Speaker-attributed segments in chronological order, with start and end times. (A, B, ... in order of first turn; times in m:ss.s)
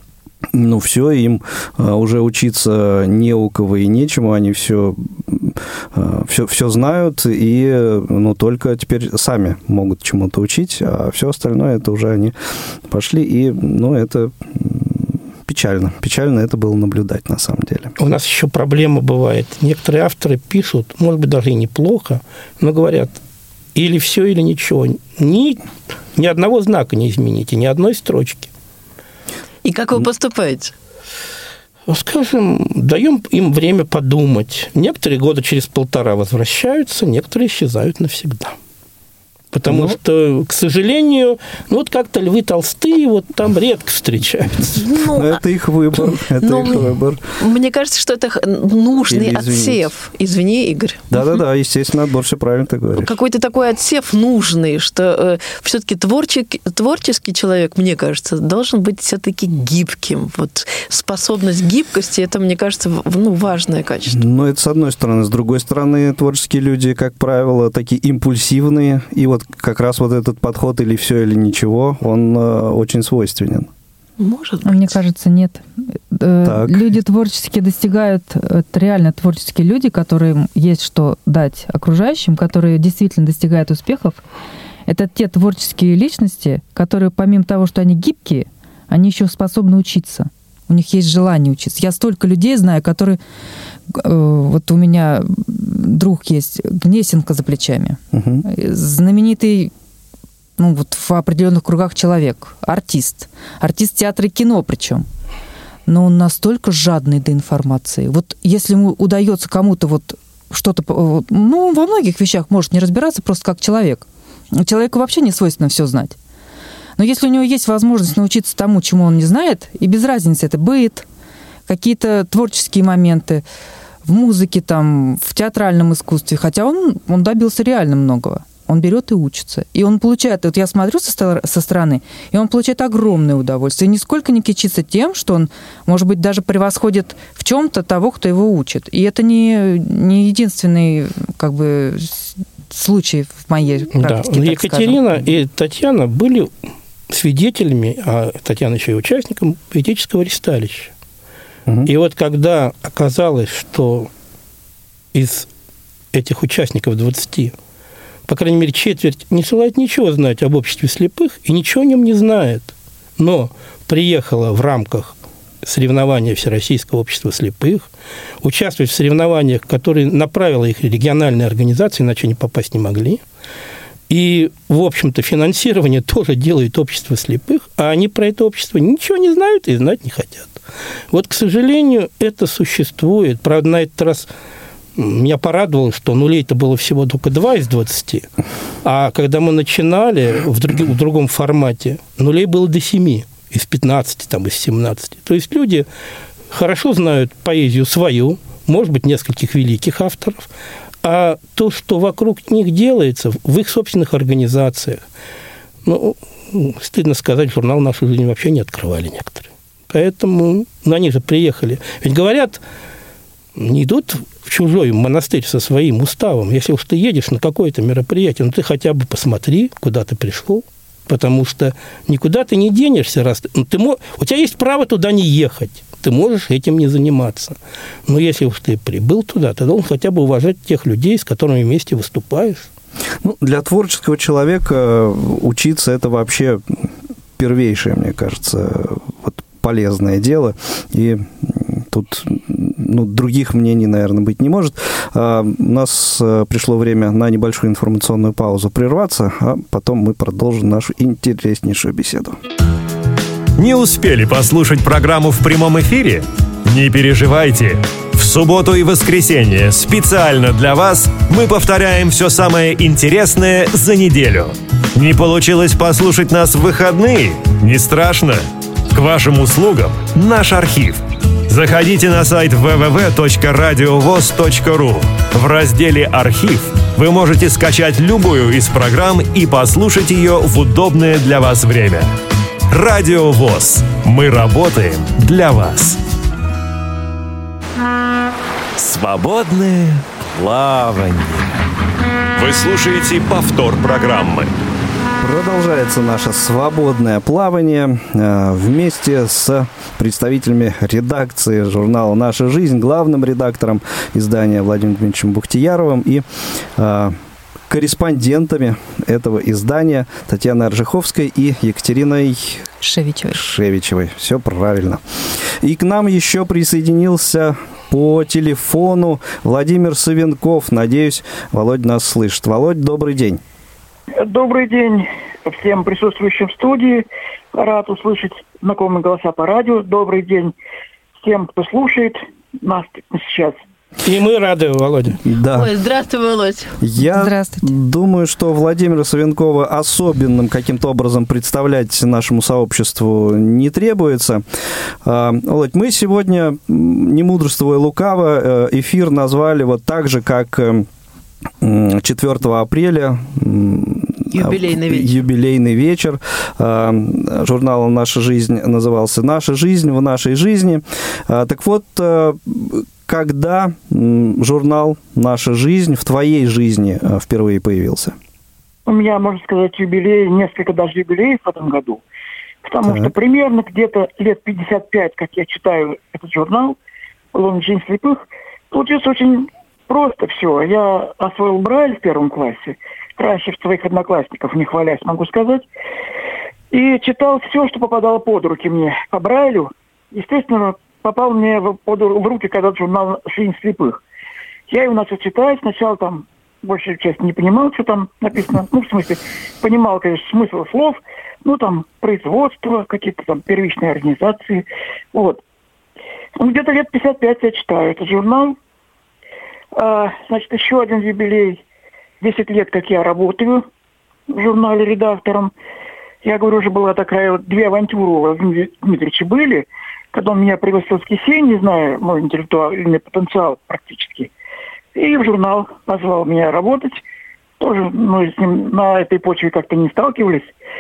0:00.5-0:12.4 A
0:12.9-0:18.0 A
0:18.0-0:23.2 B
0:23.8-0:25.6 B
0:26.2-0:28.5 B
0:29.6-0:30.7 C
0:31.9-0:38.6 B
0:39.5-0:44.9 B
0:39.7-0:40.0 A
0:44.8-0:45.4 C
0:45.1-0:47.2 A
0:46.4-0:51.1 C
0:49.1-0:49.9 A
0:51.1-0:53.1 A
0:53.0-1:04.2 C
1:04.1-1:13.7 A
1:14.2-1:15.0 C
1:14.6-1:24.2 D
1:16.4-1:16.9 A
1:24.9-1:33.2 D
1:33.9-1:39.7 D
1:38.1-1:38.4 A
1:40.6-1:45.1 D
1:45.9-1:56.2 D
1:57.0-2:01.1 D
2:01.7-2:03.4 D
2:04.0-2:25.2 D
2:24.0-2:26.5 B
2:27.1-2:30.9 B
2:31.9-2:34.1 B
2:35.1-2:35.5 B
2:36.1-2:37.5 B
2:38.3-2:47.9 B
2:48.4-2:53.2 B
2:54.1-3:00.6 B
3:01.1-3:04.3 B
3:05.0-3:08.3 B
3:08.8-3:15.9 B
3:16.5-3:20.5 B
3:21.0-3:25.0 B
3:25.8-3:32.6 B
3:33.6-3:52.7 B
3:53.2-4:12.4 A
4:13.6-4:42.1 E
4:42.7-4:46.0 E
4:48.8-4:51.6 E
4:52.4-4:54.5 E
4:55.2-5:06.2 A
5:06.8-5:07.2 A
5:07.7-5:12.7 A
5:12.8-5:13.4 D
5:13.3-5:23.4 A
5:24.2-5:30.5 F
5:31.2-5:33.6 F
5:34.0-5:35.2 B
5:35.2-5:35.7 A
5:35.5-5:36.8 C
5:36.8-5:44.4 A
5:37.0-5:37.7 D
5:45.0-5:50.9 A
5:51.6-6:08.2 A
5:54.3-5:55.2 C
6:08.9-6:12.0 F
6:12.6-6:16.8 F
6:12.8-6:13.1 A
6:17.3-6:25.7 F
6:26.7-6:34.0 F
6:34.7-6:45.4 F
6:46.4-6:48.6 F
6:49.7-6:51.6 F
6:52.2-6:53.7 F
6:54.3-6:55.5 F
6:56.2-7:04.3 F
7:05.0-7:07.0 F
7:07.6-7:10.5 F